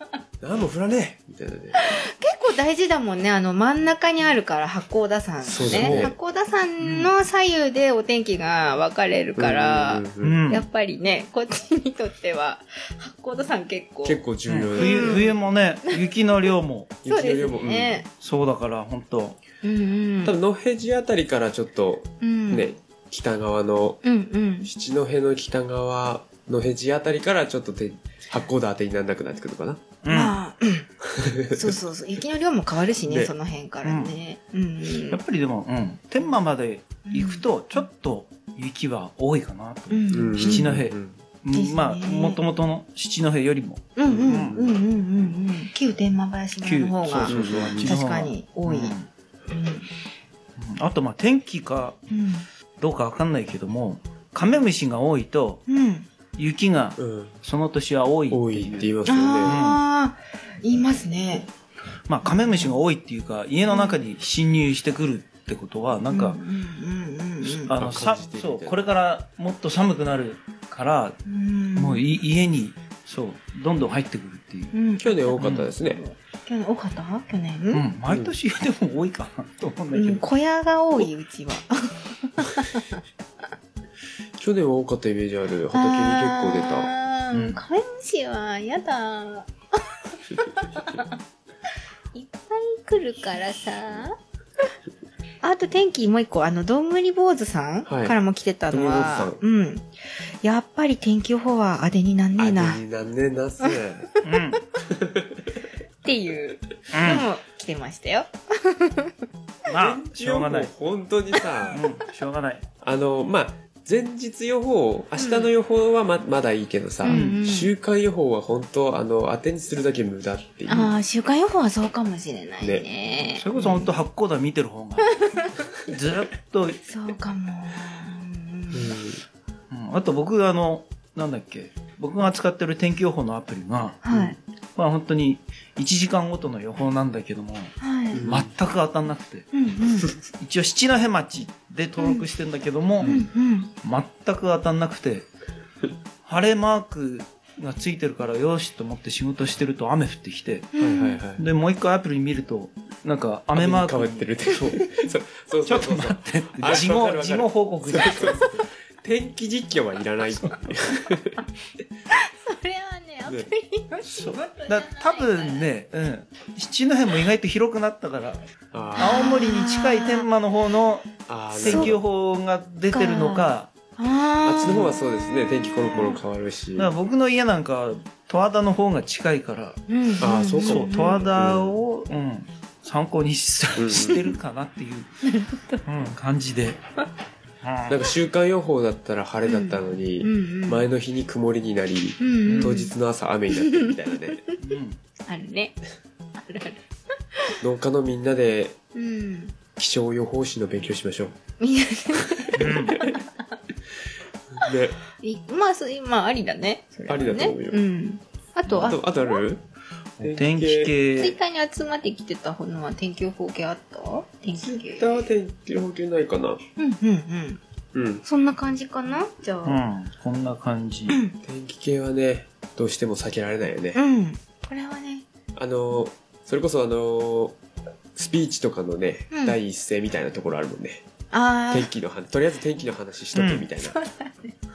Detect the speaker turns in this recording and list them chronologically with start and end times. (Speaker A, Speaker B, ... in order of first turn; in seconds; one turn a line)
Speaker A: 0.4-2.0
Speaker B: 1.8-14.2
Speaker A: 5.4-6.1
Speaker C: 5.7-6.1
Speaker C: 6.8-7.1
Speaker A: 9.4-10.4
Speaker C: 10.2-10.7
Speaker A: 14.0-15.3
Speaker C: 14.5-16.9
Speaker B: 14.7-15.3
Speaker A: 17.0-18.0
Speaker B: 17.1-18.1
Speaker C: 18.2-19.4
Speaker B: 19.6-20.4
Speaker A: 20.2-24.0
Speaker B: 22.2-22.7
Speaker B: 24.0-24.7
Speaker A: 24.6-29.8
Speaker C: 30.0-30.4
Speaker B: 30.1-30.9
Speaker A: 31.0-31.8
Speaker B: 31.5-35.2
Speaker A: 33.1-33.3
Speaker C: 33.8-34.1
Speaker C: 35.1-44.6
Speaker B: 37.1-37.9
Speaker B: 39.9-40.7
Speaker A: 40.1-41.2
Speaker B: 41.5-42.4
Speaker B: 44.0-49.0
Speaker A: 44.1-44.7
Speaker C: 46.6-49.1
Speaker A: 47.3-48.0
Speaker B: 49.5-49.9
Speaker C: 50.6-52.0
Speaker B: 52.1-52.5
Speaker C: 52.8-55.6
Speaker B: 55.7-56.1
Speaker C: 56.4-59.8
Speaker A: 57.0-57.4
Speaker A: 58.3-59.6
Speaker B: 59.1-61.5
Speaker C: 62.1-66.4
Speaker B: 62.2-62.8
Speaker B: 63.7-64.0
Speaker B: 66.1-67.8
Speaker C: 67.4-71.2
Speaker A: 67.7-68.8
Speaker B: 71.3-72.0
Speaker C: 71.8-74.8
Speaker B: 74.7-77.8
Speaker A: 75.0-76.0
Speaker C: 75.4-75.7
Speaker C: 77.7-80.2
Speaker A: 78.1-78.3
Speaker B: 79.9-83.0
Speaker A: 84.4-86.9
Speaker B: 85.7-91.2
Speaker C: 87.3-87.6
Speaker B: 92.1-94.2
Speaker B: 95.4-99.9
Speaker A: 97.9-98.2
Speaker A: 98.7-99.4
Speaker B: 100.4-102.8
Speaker A: 102.4-104.2
Speaker C: 104.2-104.6
Speaker A: 104.8-105.5
Speaker B: 106.0-109.2
Speaker C: 106.9-107.3
Speaker C: 109.7-110.7
Speaker A: 109.7-111.8
Speaker C: 111.7-112.6
Speaker A: 112.8-121.0
Speaker B: 115.2-115.5
Speaker B: 117.0-117.7
Speaker C: 117.1-117.4
Speaker B: 120.7-124.0
Speaker A: 122.6-122.9
Speaker C: 123.4-125.2
Speaker B: 125.2-125.5
Speaker C: 125.8-126.8
Speaker B: 126.8-128.9
Speaker A: 128.7-129.2
Speaker C: 129.7-134.0
Speaker B: 134.0-134.4
Speaker A: 134.1-134.4
Speaker C: 134.8-139.5
Speaker B: 137.8-138.3
Speaker A: 138.1-138.5
Speaker B: 139.5-140.1
Speaker C: 140.3-143.2
Speaker B: 142.0-142.3
Speaker B: 143.0-143.7
Speaker C: 143.8-145.3
Speaker C: 146.2-150.8
Speaker B: 150.8-151.2
Speaker A: 150.8-151.4
Speaker C: 151.4-154.9
Speaker A: 153.6-161.4
Speaker C: 155.7-158.4
Speaker C: 160.4-160.7
Speaker B: 162.1-165.7
Speaker A: 163.3-163.5
Speaker C: 164.0-168.4
Speaker A: 168.7-169.3
Speaker B: 169.0-170.3
Speaker C: 169.0-173.7
Speaker A: 171.3-172.0
Speaker B: 171.6-172.0
Speaker B: 172.9-175.0
Speaker A: 174.4-176.9
Speaker C: 174.7-175.0
Speaker B: 175.6-176.2
Speaker C: 176.8-179.8
Speaker B: 179.9-181.3
Speaker A: 180.2-181.8
Speaker C: 180.6-185.1
Speaker A: 183.8-184.3
Speaker B: 185.2-185.8
Speaker C: 185.8-186.8
Speaker C: 187.6-188.0
Speaker A: 187.9-194.4
Speaker B: 189.5-190.8
Speaker B: 192.2-192.9
Speaker C: 192.5-192.8
Speaker B: 193.6-194.0
Speaker B: 194.5-194.8
Speaker C: 194.6-195.0
Speaker B: 195.3-195.8
Speaker B: 196.4-196.8
Speaker A: 197.6-198.8
Speaker B: 198.9-199.6
Speaker A: 199.8-201.3
Speaker B: 201.6-203.2
Speaker A: 202.2-203.2
Speaker C: 202.6-203.1
Speaker A: 204.5-205.0
Speaker B: 205.2-209.4
Speaker A: 207.1-207.8
Speaker A: 208.7-209.6
Speaker A: 210.2-210.9
Speaker C: 210.2-211.4
Speaker B: 211.2-215.3
Speaker A: 214.6-216.6
Speaker B: 216.8-217.6
Speaker A: 217.9-218.2
Speaker B: 218.2-219.8
Speaker C: 219.7-221.2
Speaker B: 221.1-221.4
Speaker A: 221.4-224.0
Speaker B: 223.9-225.2
Speaker A: 225.6-227.6
Speaker A: 228.2-231.1
Speaker B: 229.3-229.6
Speaker B: 231.3-231.9
Speaker A: 231.7-234.0
Speaker C: 233.3-233.7
Speaker B: 233.8-234.6